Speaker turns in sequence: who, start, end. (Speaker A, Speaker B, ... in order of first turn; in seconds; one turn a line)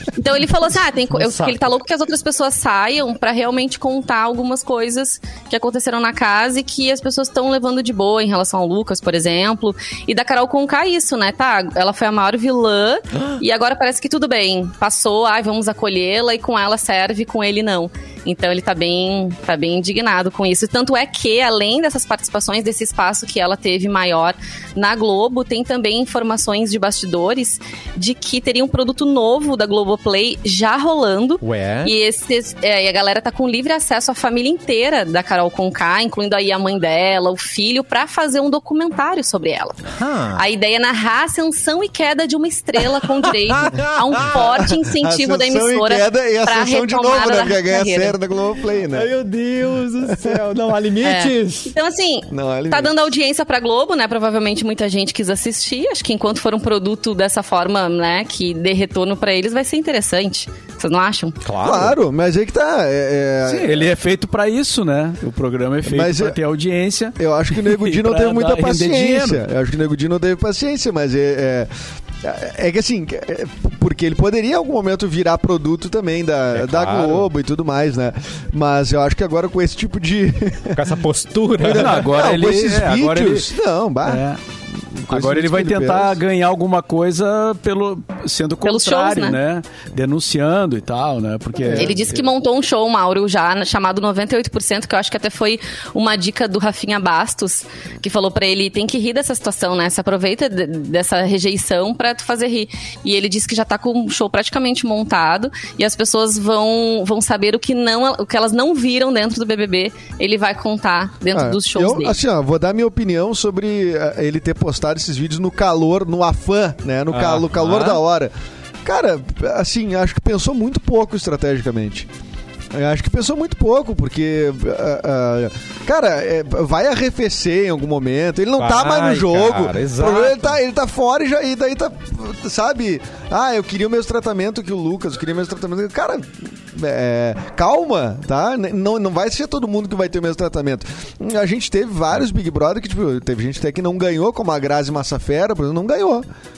Speaker A: 0.1-48.1
Speaker B: 1.1-1.7
Speaker B: 31.4-31.9
Speaker B: 39.9-40.4
Speaker B: 43.0-44.5
Speaker C: 44.5-49.1
Speaker B: 48.9-51.7
Speaker C: 50.1-50.4
Speaker A: 51.0-61.4
Speaker C: 52.3-52.9
Speaker B: 61.4-62.0
Speaker C: 61.6-63.9
Speaker D: 63.4-69.4
Speaker C: 65.8-66.4
Speaker C: 67.2-80.8
Speaker B: 76.5-77.3
Speaker B: 80.7-82.4
Speaker C: 81.6-84.2
Speaker D: 81.6-83.5
Speaker D: 84.0-84.4
Speaker C: 84.9-86.2
Speaker D: 85.1-92.2
Speaker A: 88.6-89.4
Speaker C: 91.6-92.0
Speaker A: 91.7-112.2
Speaker C: 111.3-118.3
Speaker B: 117.1-118.0
Speaker C: 118.8-122.1
Speaker C: 122.7-146.2
Speaker B: 128.6-130.6